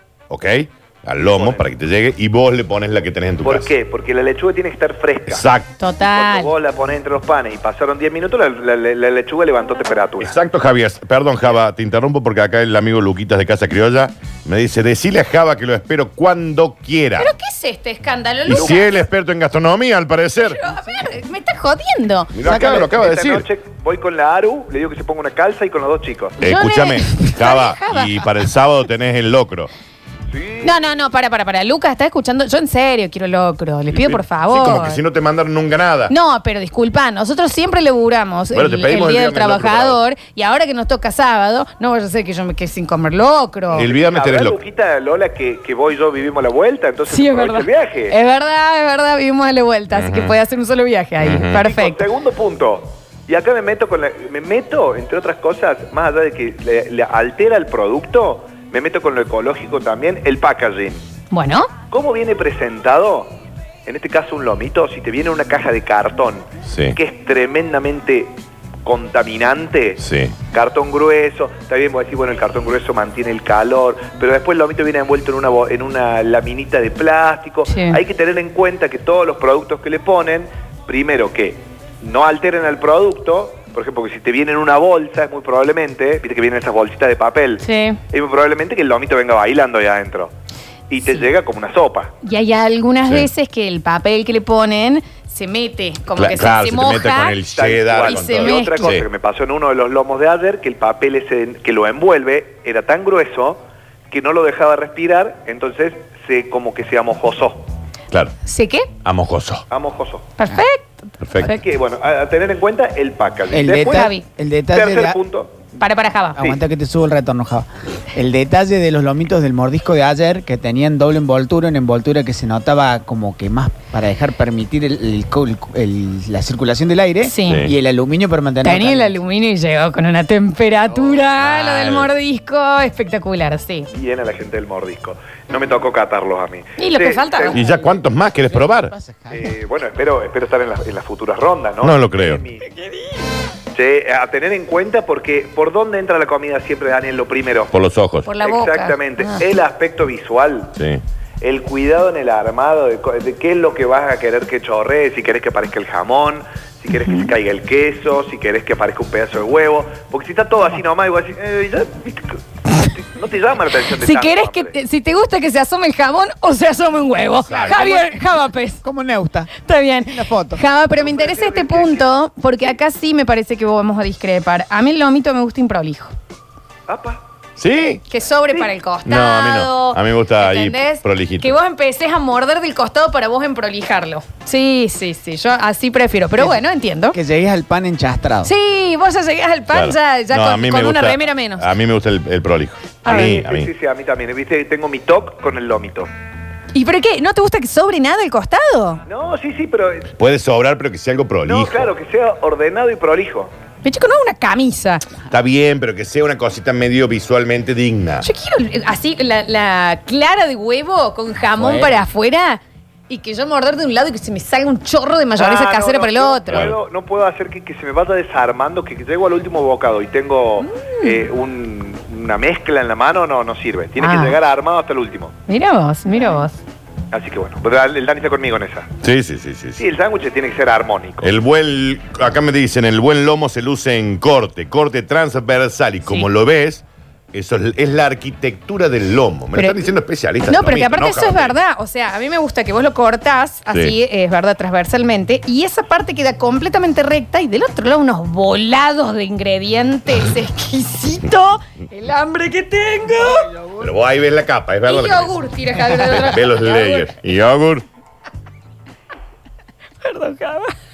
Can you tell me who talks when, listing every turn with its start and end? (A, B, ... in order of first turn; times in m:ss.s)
0:00.3-0:03.7 A
0:01.2-0:01.7 B
0:03.4-0:05.4 B
0:05.3-0:05.7 A
0:05.8-0:06.5 C
0:06.1-0:10.4 B
0:10.2-0:17.3 A
0:17.2-0:18.9 C
0:18.5-0:20.6 A
0:18.5-0:18.9 B
0:20.4-0:22.4 C
0:22.3-0:23.4 A
0:22.4-0:26.4 B
0:26.4-0:29.7 A
0:26.4-0:28.2 C
0:30.3-0:30.8 B
0:30.6-0:35.0 C
0:33.9-0:36.1 A
0:36.1-0:43.9 C
0:38.5-0:40.0 A
0:43.7-0:48.1 B
0:43.7-0:44.6 A
0:47.1-0:52.0 C
0:49.9-0:50.3 A
0:51.2-0:51.6 A
0:51.6-1:01.0 B
1:01.3-1:01.7 C
1:01.9-1:03.3 B
1:03.8-1:30.3 B
1:06.7-1:07.0 A
1:10.0-1:10.3 A
1:17.7-1:18.0 C
1:27.6-1:28.0 C
1:30.9-1:32.1 B
1:32.2-1:37.4 C
1:36.1-1:39.0 A
1:37.5-1:47.7 B
1:38.0-1:38.9 C
1:48.4-1:48.9 C
1:49.0-1:49.6 A
1:49.7-1:50.3 B
1:50.4-1:51.6 C
1:51.2-1:51.5 A
1:51.4-1:54.1 B
1:53.5-1:55.2 D
1:53.7-1:54.2 C
1:54.7-1:55.5 B
1:55.8-1:56.4 C
1:56.4-2:09.2 D
2:07.2-2:07.7 C
2:07.5-2:07.7 A
2:08.6-2:13.9 C
2:11.4-2:12.1 A
2:13.9-2:17.9 B
2:16.8-2:17.6 C
2:17.5-2:18.9 A
2:18.5-2:19.5 D
2:19.3-2:22.6 B
2:21.8-2:22.4 A
2:23.7-2:27.7 B
2:27.7-2:28.3 A
2:28.2-2:29.4 C
2:28.4-2:30.8 B
2:31.4-2:44.8 B
2:37.0-2:37.3 C
2:44.0-2:48.8 C
2:47.5-2:47.8 A
2:47.5-2:47.8 B
2:47.6-2:47.9 D
2:48.8-2:49.5 D
2:49.6-2:56.1 C
2:50.0-2:50.6 D
2:51.0-2:52.1 B
2:56.9-2:57.2 B
2:57.6-2:58.0 A
2:58.1-3:07.2 C
2:59.0-3:01.5 A
3:07.1-3:08.5 D
3:08.4-3:11.7 C
3:09.7-3:13.7 A
3:13.0-3:13.4 C
3:13.0-3:16.1 B
3:16.7-3:19.0 C
3:19.0-3:20.1 B
3:20.2-3:21.8 A
3:21.4-3:23.5 B
3:23.8-3:25.0 C
3:25.3-3:28.3 A
3:28.2-3:36.7 C
3:31.6-3:31.9 D
3:35.4-3:45.4 B
3:36.5-3:36.8 A
3:40.6-3:41.2 C
3:44.0-3:44.4 C
3:45.5-3:46.6 C
3:47.1-3:48.9 B
3:49.0-3:49.8 A
3:49.8-3:51.3 B
3:51.2-4:01.5 A
3:59.5-3:59.9 C
4:00.5-4:13.5 C
4:13.8-4:15.3 A
4:14.8-4:17.1 C
4:15.9-4:17.8 A
4:20.0-4:20.7 C